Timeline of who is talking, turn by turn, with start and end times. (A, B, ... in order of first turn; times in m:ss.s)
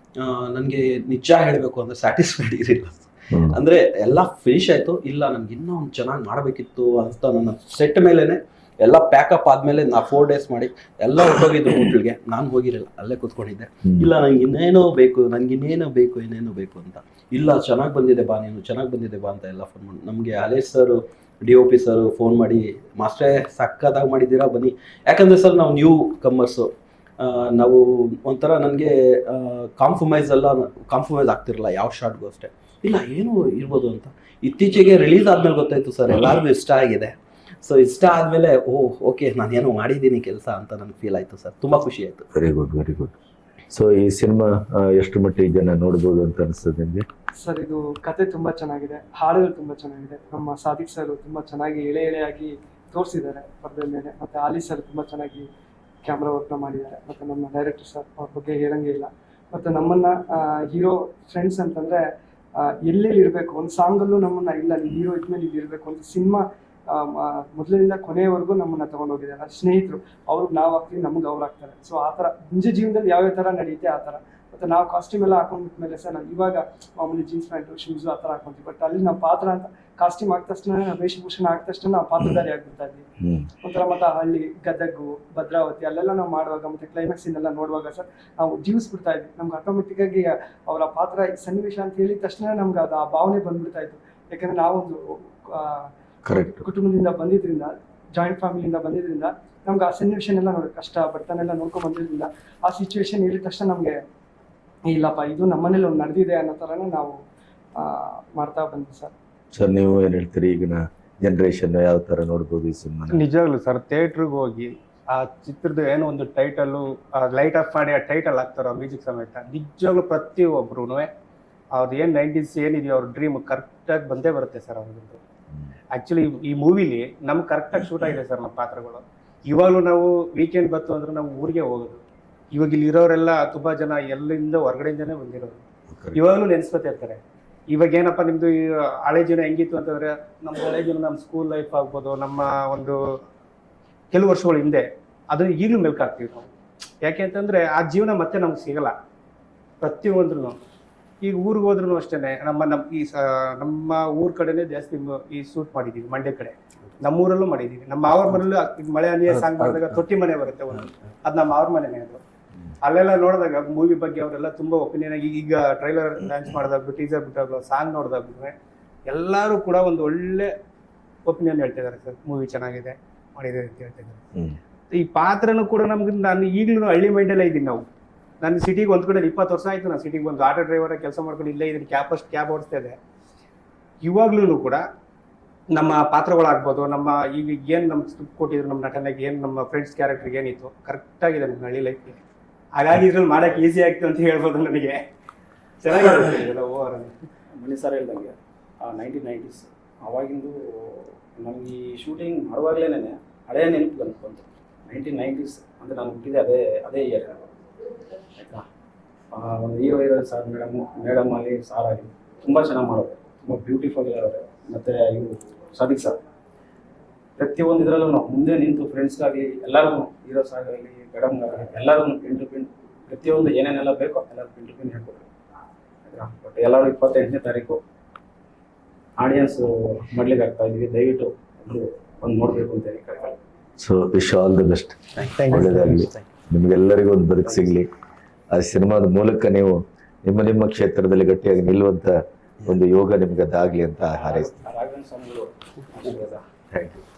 0:00.2-0:42.3 A
0:03.3-0:03.6 B
0:42.4-0:43.2 B
0:43.7-0:47.1 B
0:47.4-0:55.5 C
0:56.0-1:02.0 C
1:02.6-1:23.0 C
1:22.2-1:22.4 B
1:23.2-1:23.5 B
1:23.6-1:35.9 C
1:36.3-1:36.6 B
1:36.4-1:44.0 C
1:44.9-1:47.2 C
1:47.8-1:49.1 C
1:49.6-1:53.2 B
1:53.1-2:01.1 D
2:01.8-2:05.2 D
2:05.9-2:12.0 D
2:12.5-2:15.6 D
2:15.9-2:16.2 B
2:16.2-2:17.2 D
2:17.7-2:23.0 D
2:24.1-2:26.5 D
2:27.0-2:28.9 D
2:29.8-2:30.6 D
2:31.2-2:42.2 D
2:39.4-2:40.0 A
2:42.8-2:48.6 D
2:49.1-2:50.5 D
2:51.3-2:54.2 D
2:54.9-2:57.8 D
2:58.4-3:03.0 D
3:04.0-3:04.8 D
3:05.7-3:12.2 D
3:12.8-3:15.0 D
3:15.8-3:17.2 D
3:17.6-3:27.5 E
3:28.4-3:28.7 E
3:29.3-3:36.2 E
3:37.4-3:45.3 E
3:46.1-3:47.8 E
3:49.2-3:53.4 E
3:53.8-3:57.9 B
3:55.2-3:56.3 A
3:58.5-4:04.5 B
4:04.1-4:06.4 E
4:06.7-4:07.0 B